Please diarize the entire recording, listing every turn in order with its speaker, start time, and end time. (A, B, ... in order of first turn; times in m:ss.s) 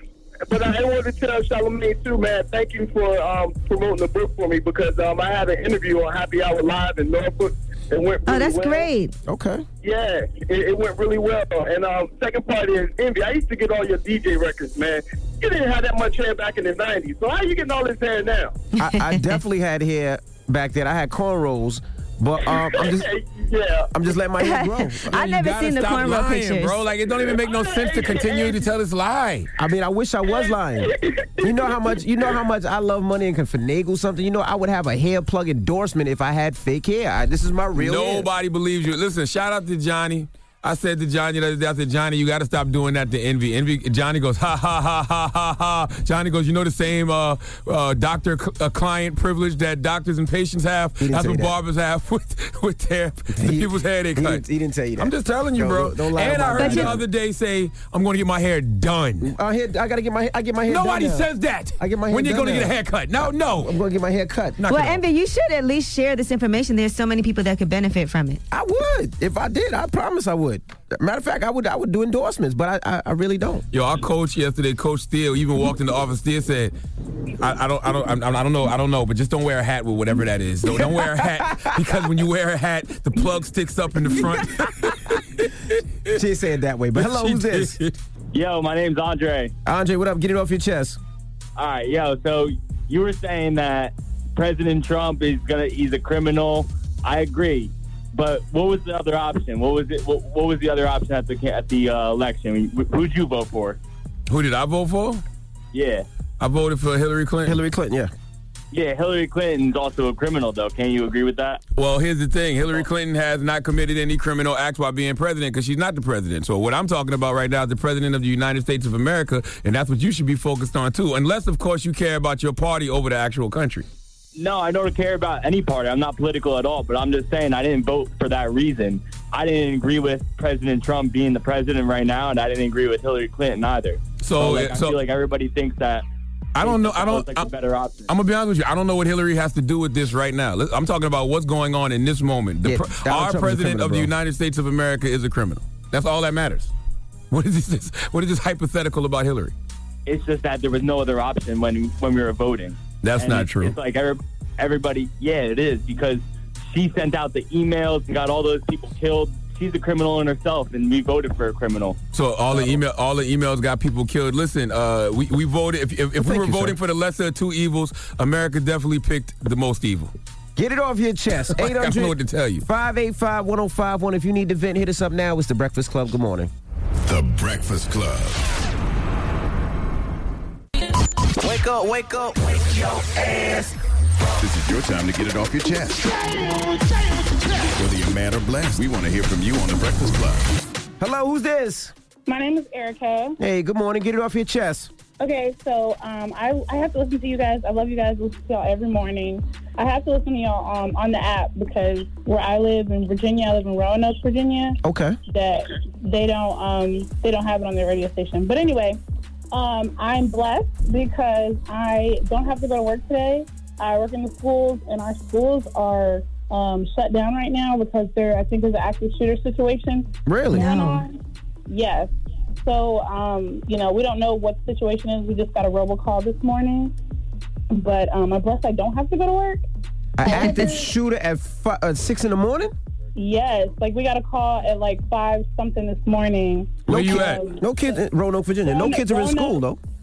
0:00.5-0:08.9 A
0:08.3-0:09.1 B
0:09.3-0:09.7 C
0:09.8-0:18.6 A
0:18.8-0:19.4 B
0:18.8-0:23.1 C
0:22.5-0:23.9 A
0:23.9-0:25.1 C
0:24.4-0:26.8 B
0:25.1-0:29.5 D
0:27.1-0:28.6 A
0:29.6-0:30.9 C
0:30.3-0:32.0 A
0:31.4-0:38.3 C
0:37.8-0:54.4 D
0:51.0-0:51.5 C
0:53.3-0:57.0 C
0:55.0-0:59.3 D
0:56.6-0:57.0 B
0:59.2-1:04.6 C
1:00.7-1:03.7 D
1:04.6-1:05.0 D
1:04.7-1:08.4 B
1:08.5-1:13.6 C
1:13.7-1:16.8 D
1:17.4-1:25.5 D
1:20.7-1:21.8 C
1:26.1-1:27.8 C
1:27.0-1:28.0 D
1:28.3-1:29.5 E
1:29.7-1:31.0 C
1:31.6-1:43.8 E
1:44.3-1:45.2 D
1:45.7-1:46.0 E
1:46.4-1:47.6 D
1:47.5-1:48.1 C
1:48.7-1:51.6 E
1:51.8-2:03.9 D
2:04.4-2:16.0 E
2:14.2-2:15.0 D
2:16.6-2:17.5 D
2:16.6-2:18.1 E
2:18.1-2:26.7 D
2:22.6-2:24.1 C
2:27.3-2:29.6 D
2:30.1-2:42.0 E
2:33.0-2:33.8 D
2:42.1-2:50.1 D
2:46.2-2:46.8 C
2:50.6-2:52.1 C
2:51.5-2:52.6 D
2:52.7-2:56.5 C
2:57.1-2:58.4 F
3:01.4-3:03.7 C
3:04.4-3:06.1 F
3:07.7-3:10.5 F
3:11.0-3:11.9 C
3:12.3-3:13.4 G
3:13.4-3:14.9 C
3:15.2-3:24.8 G
3:24.8-3:25.2 C
3:25.3-3:29.0 G
3:29.5-3:41.2 G
3:40.3-3:40.7 C
3:40.5-3:41.0 B
3:41.7-3:42.1 G
3:42.6-3:46.9 G
3:47.7-3:49.6 G
3:50.2-3:52.7 C
3:50.2-3:50.9 G
3:50.3-3:50.8 B
3:53.2-3:57.6 G
3:56.9-3:59.8 C
3:56.9-3:57.5 D
3:58.6-3:59.6 G